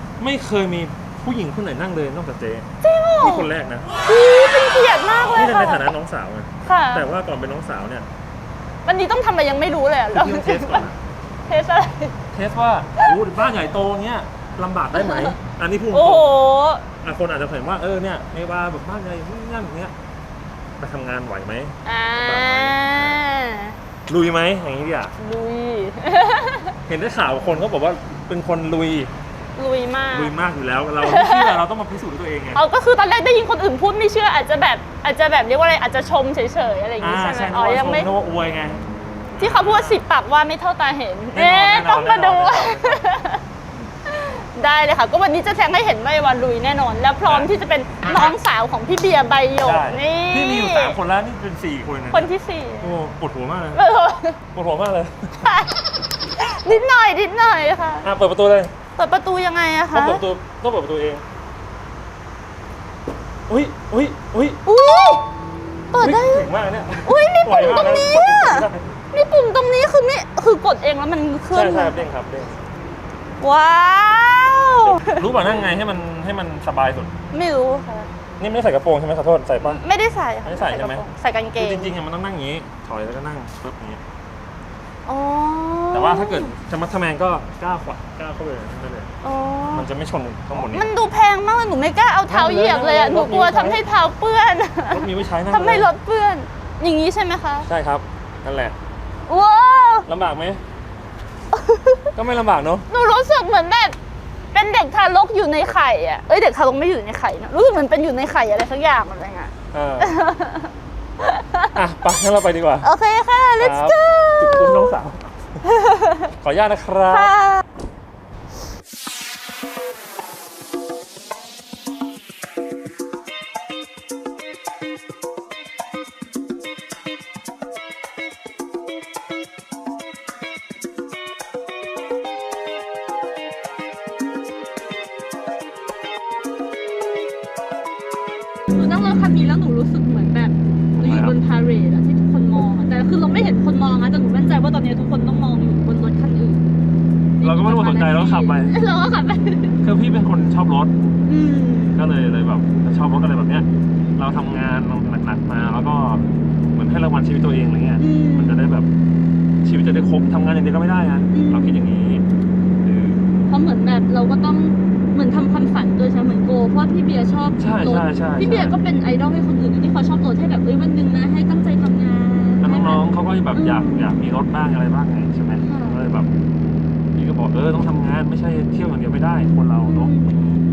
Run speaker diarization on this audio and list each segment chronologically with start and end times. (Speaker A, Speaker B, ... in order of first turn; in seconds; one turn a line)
Speaker A: 0.2-2.7
Speaker B: 2.8-3.5
Speaker A: 3.2-4.0
Speaker B: 4.1-5.8
Speaker A: 5.2-8.1
Speaker B: 6.7-7.1
Speaker B: 8.9-10.9
Speaker A: 10.1-11.0
Speaker B: 11.5-12.2
Speaker A: 12.3-16.4
Speaker B: 15.0-15.4
Speaker B: 15.9-16.9
Speaker A: 17.0-19.9
Speaker A: 20.8-23.2
Speaker B: 21.9-23.8
Speaker A: 24.1-25.1
Speaker B: 25.2-26.7
Speaker A: 26.9-29.1
Speaker B: 29.6-30.3
Speaker A: 30.1-32.6
Speaker B: 31.0-31.6
Speaker B: 32.5-38.1
Speaker A: 37.0-38.8
Speaker A: 39.4-40.0
Speaker B: 39.4-43.4
Speaker A: 41.3-43.1
Speaker B: 44.1-51.0
Speaker A: 47.2-47.5
Speaker A: 48.0-48.4
Speaker A: 49.6-53.8
Speaker B: 52.1-53.0
Speaker B: 53.7-54.4
Speaker A: 54.5-55.5
Speaker B: 55.5-58.1
Speaker A: 58.0-58.7
Speaker B: 59.0-60.3
Speaker A: 59.9-61.2
Speaker A: 63.5-64.6
Speaker B: 64.7-65.2
Speaker B: 65.9-66.5
Speaker A: 65.9-68.9
Speaker B: 67.0-72.1
Speaker A: 71.5-72.6
Speaker B: 73.4-75.3
Speaker A: 74.8-77.1
Speaker B: 77.3-78.1
Speaker A: 78.4-79.8
Speaker B: 79.6-82.0
Speaker A: 80.4-81.1
Speaker A: 81.6-84.0
Speaker B: 85.1-86.5
Speaker A: 85.9-89.1
Speaker B: 89.2-89.9
Speaker A: 89.7-90.9
Speaker B: 90.5-97.7
Speaker A: 92.3-93.8
Speaker A: 94.9-95.9
Speaker A: 97.7-98.8
Speaker B: 99.3-100.1
Speaker A: 100.1-100.6
Speaker B: 101.5-102.1
Speaker A: 102.2-102.9
Speaker B: 102.9-104.0
Speaker B: 104.5-111.7
Speaker A: 109.7-110.2
Speaker A: 111.7-112.9
Speaker B: 112.8-115.0
Speaker A: 113.6-115.2
Speaker B: 115.8-116.3
Speaker A: 116.4-117.3
Speaker B: 117.1-117.6
Speaker C: 138.7-146.6
Speaker A: 141.0-141.4
Speaker C: 147.4-149.8
Speaker A: 147.4-148.8
Speaker B: 148.2-148.9
Speaker A: 149.8-151.0
Speaker C: 151.3-152.0
Speaker A: 151.9-158.9
Speaker C: 158.0-158.7
Speaker A: 159.6-162.2
Speaker C: 161.3-161.8
Speaker A: 162.8-163.2
Speaker C: 163.5-172.9
Speaker A: 167.6-168.8
Speaker A: 172.6-176.3
Speaker B: 172.7-173.0
Speaker C: 173.5-174.1
Speaker B: 175.7-176.0
Speaker A: 177.2-180.3
Speaker B: 179.9-180.3